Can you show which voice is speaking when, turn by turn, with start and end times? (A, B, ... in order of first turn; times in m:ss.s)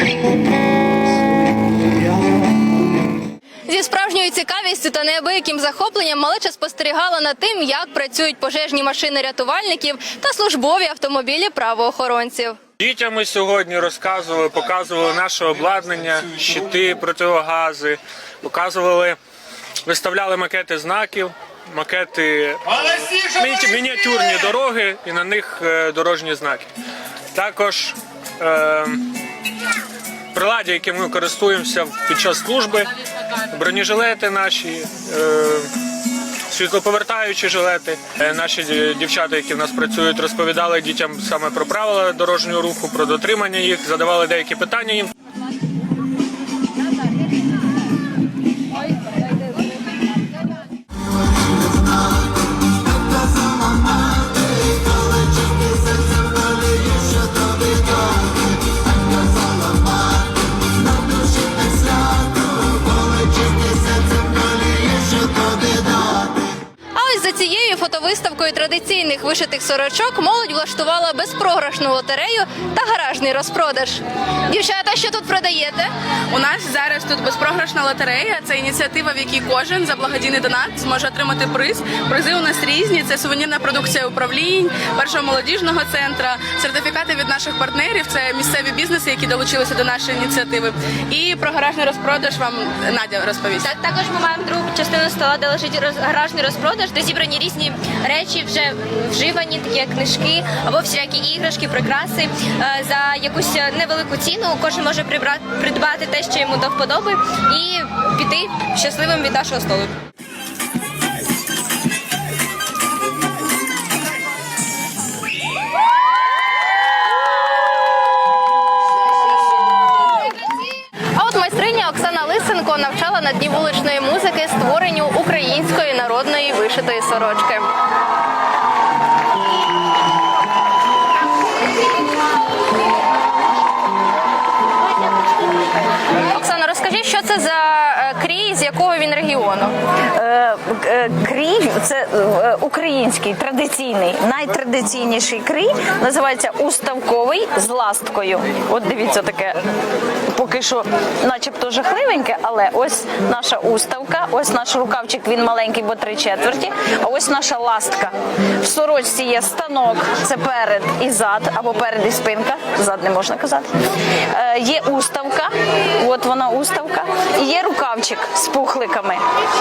0:03.7-0:12.6 A
0:12.8-0:19.2 B
0:19.8-0:26.7 B
0:27.3-0:29.0 B
0:30.3-0:32.9 B
0:33.5-0:35.7 B
0:36.5-0:45.1 B
1:06.9-1:15.9 A
1:16.3-1:33.6 C
1:33.6-1:49.9 D
2:01.1-2:07.7 A
2:16.3-2:19.7 A
2:20.1-2:29.6 E
2:30.3-2:43.7 E
2:44.3-2:49.2 E